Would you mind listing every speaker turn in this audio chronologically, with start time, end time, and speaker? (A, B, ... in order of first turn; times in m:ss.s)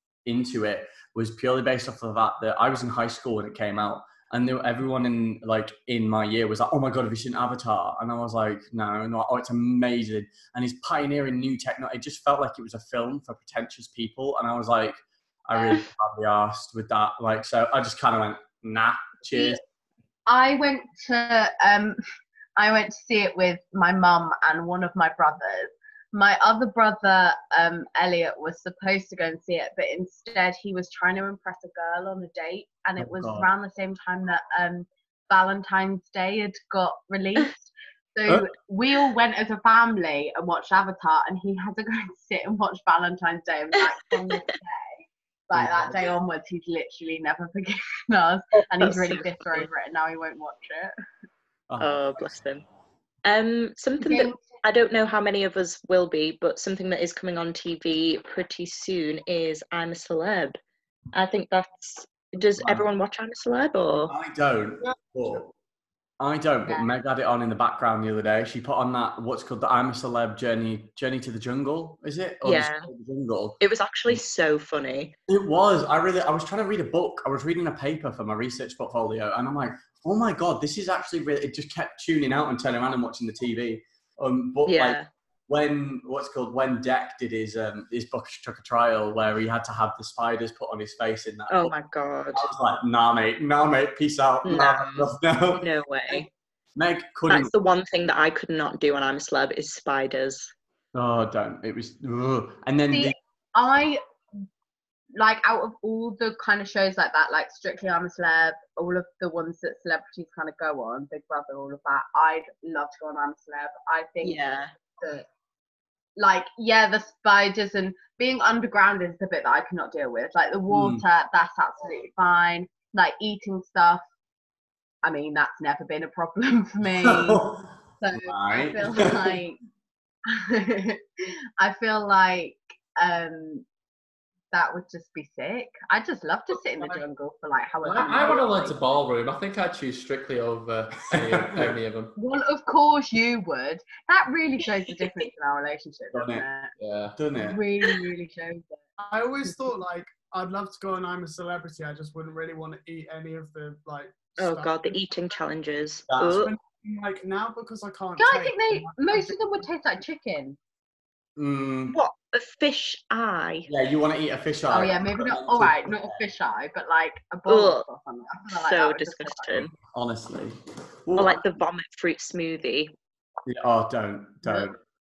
0:00.2-0:19.6 A
0:15.5-0:15.8 B
0:19.3-0:19.6 B
0:20.3-0:22.0 B
0:22.6-0:50.9 B
0:33.0-0:33.5 A
0:45.5-0:46.0 A
0:48.8-0:49.7 C
0:51.7-0:52.4 A
0:51.8-0:52.6 C
0:53.2-1:00.6 C
0:54.0-0:54.4 B
1:01.1-1:04.1 C
1:02.6-1:02.8 A
1:04.0-1:05.5 A
1:04.8-1:05.1 D
1:06.2-1:14.2 A
1:12.4-1:12.9 C
1:13.6-1:15.1 C
1:15.3-1:31.7 A
1:24.6-1:25.1 C
1:31.5-1:32.5 C
1:32.3-1:37.5 A
1:34.4-1:34.9 C
1:34.8-1:35.1 E
1:35.6-1:36.3 C
1:37.3-1:40.5 C
1:40.9-1:43.1 A
1:42.9-1:44.0 B
1:45.1-1:54.4 B
1:54.2-1:54.7 C
1:55.0-1:55.2 B
1:56.2-2:04.0 B
2:00.7-2:01.0 A
2:05.0-2:07.4 B
2:07.0-2:09.4 A
2:08.0-2:09.6 B
2:10.3-2:13.6 B
2:14.5-2:18.8 B
2:17.8-2:22.1 E
2:21.1-2:21.7 A
2:22.2-2:26.7 B
2:26.1-2:26.4 A
2:26.8-2:27.1 E
2:27.1-2:27.6 A
2:27.3-2:28.8 B
2:29.0-2:35.0 D
2:34.4-2:36.5 C
2:36.1-2:36.5 A
2:36.5-2:39.4 D
2:38.2-2:40.6 B
2:41.4-2:42.0 A
2:41.9-2:43.7 C
2:43.7-2:46.2 A
2:44.7-2:49.7 B
2:47.5-2:47.8 C
2:48.5-2:49.7 C
2:49.8-2:51.4 A
2:51.2-2:52.9 C
2:53.4-2:54.8 A